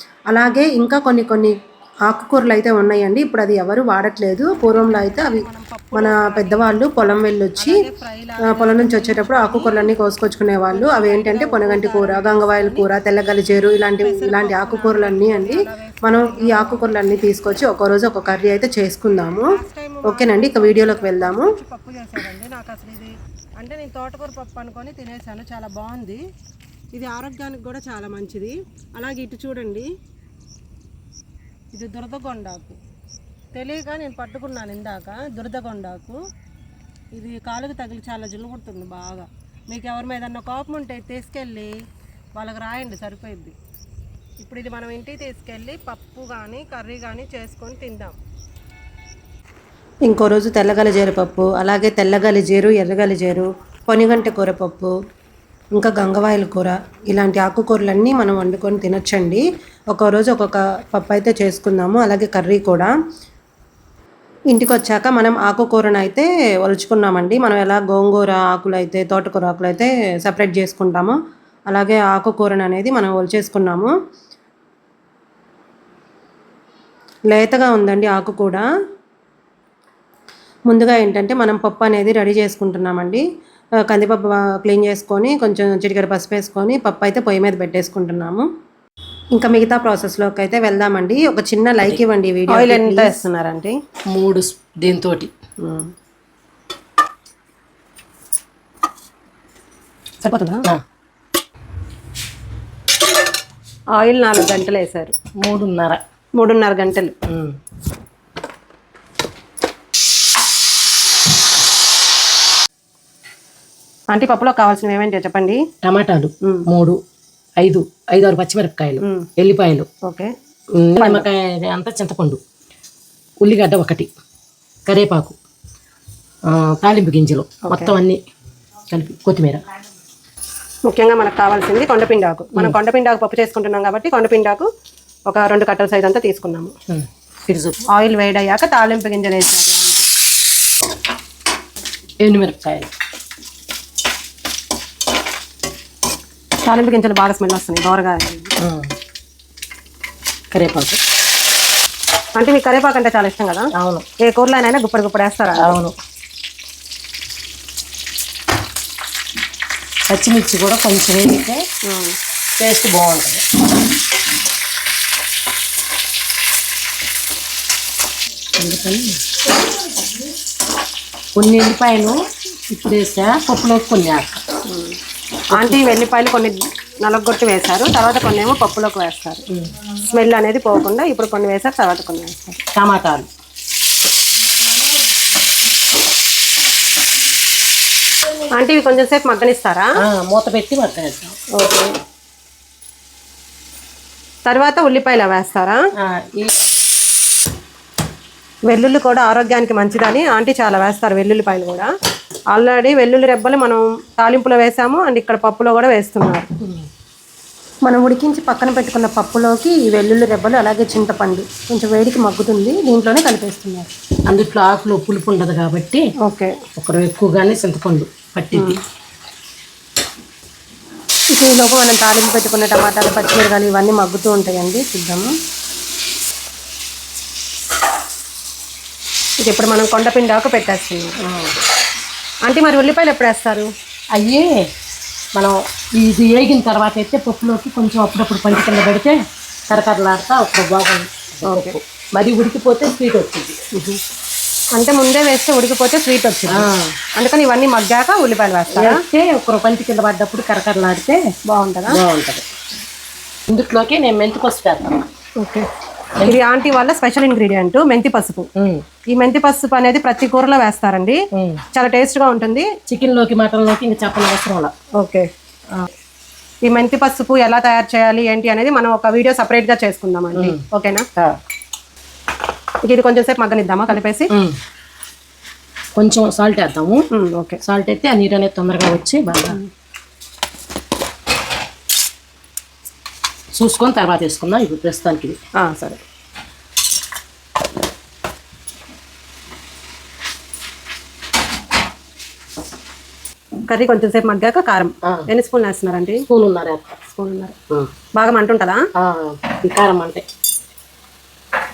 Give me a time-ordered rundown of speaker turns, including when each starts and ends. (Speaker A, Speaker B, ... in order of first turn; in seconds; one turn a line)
Speaker A: 0.3-1.5
Speaker A: 2.1-7.8
Speaker B: 4.5-6.7
Speaker B: 7.6-9.7
Speaker A: 8.5-19.5
Speaker B: 10.7-12.9
Speaker B: 14.0-16.9
Speaker B: 19.5-26.2
Speaker A: 20.1-21.5
Speaker B: 26.9-29.9
Speaker B: 31.7-32.8
Speaker B: 33.5-36.2
Speaker B: 37.2-41.8
Speaker B: 42.4-43.5
Speaker B: 44.4-48.2
Speaker A: 50.1-54.9
Speaker A: 55.8-62.9
Speaker A: 64.5-71.2
Speaker A: 71.7-73.9
Speaker A: 77.3-78.7
Speaker A: 80.7-83.2
Speaker A: 83.8-88.5
Speaker A: 89.4-93.2
Speaker B: 92.5-93.8
Speaker C: 94.1-95.3
Speaker B: 95.6-95.9
Speaker B: 100.2-100.7
Speaker B: 104.0-105.1
Speaker C: 105.4-106.0
Speaker B: 106.4-107.2
Speaker C: 107.3-107.6
Speaker B: 114.1-115.6
Speaker C: 115.8-117.0
Speaker C: 117.6-119.9
Speaker B: 119.0-119.3
Speaker B: 120.1-120.3
Speaker C: 120.8-122.4
Speaker B: 121.0-121.2
Speaker C: 123.4-124.1
Speaker C: 124.9-125.4
Speaker C: 126.5-128.2
Speaker C: 128.9-129.6
Speaker B: 130.9-134.7
Speaker B: 135.3-136.7
Speaker C: 136.9-137.8
Speaker B: 137.9-140.1
Speaker C: 142.2-142.9
Speaker B: 146.6-148.5
Speaker C: 148.6-148.9
Speaker C: 150.5-151.0
Speaker B: 152.4-155.8
Speaker C: 153.8-154.1
Speaker C: 155.6-155.9
Speaker C: 160.1-161.6
Speaker B: 161.9-162.2
Speaker C: 162.6-163.4
Speaker C: 168.6-169.2
Speaker C: 171.4-172.2
Speaker C: 172.7-174.4
Speaker B: 174.7-174.9
Speaker B: 175.5-179.4
Speaker C: 175.5-175.8
Speaker B: 180.1-182.6
Speaker C: 182.8-183.3
Speaker B: 188.6-189.9
Speaker C: 190.0-191.3
Speaker B: 191.6-192.0
Speaker B: 194.5-195.8
Speaker C: 196.0-196.5
Speaker B: 198.7-201.9
Speaker B: 202.5-206.5
Speaker A: 207.9-213.9
Speaker C: 214.3-216.0
Speaker B: 216.2-216.5
Speaker C: 216.8-218.8
Speaker A: 221.3-225.3
Speaker B: 229.4-231.2
Speaker C: 231.2-231.5
Speaker B: 232.5-233.7
Speaker C: 234.2-234.7
Speaker C: 235.4-243.6
Speaker B: 241.5-241.8
Speaker B: 244.8-249.0
Speaker C: 246.5-246.9
Speaker C: 248.7-251.2
Speaker B: 251.5-252.0
Speaker C: 251.9-252.5
Speaker C: 253.5-255.0
Speaker B: 255.4-255.7
Speaker B: 256.2-258.5
Speaker C: 258.6-258.9
Speaker B: 259.1-261.2
Speaker C: 261.4-261.6
Speaker B: 261.7-262.7
Speaker C: 262.9-264.7
Speaker B: 265.0-265.3
Speaker B: 266.6-271.1
Speaker C: 270.3-270.6
Speaker B: 272.9-274.3
Speaker C: 274.3-274.6
Speaker C: 276.0-277.0
Speaker B: 277.1-277.6
Speaker C: 277.6-279.6
Speaker C: 283.6-285.4
Speaker B: 285.6-286.0
Speaker B: 293.7-296.2
Speaker C: 296.3-297.0
Speaker B: 297.2-297.6
Speaker B: 298.2-298.8
Speaker C: 299.0-300.2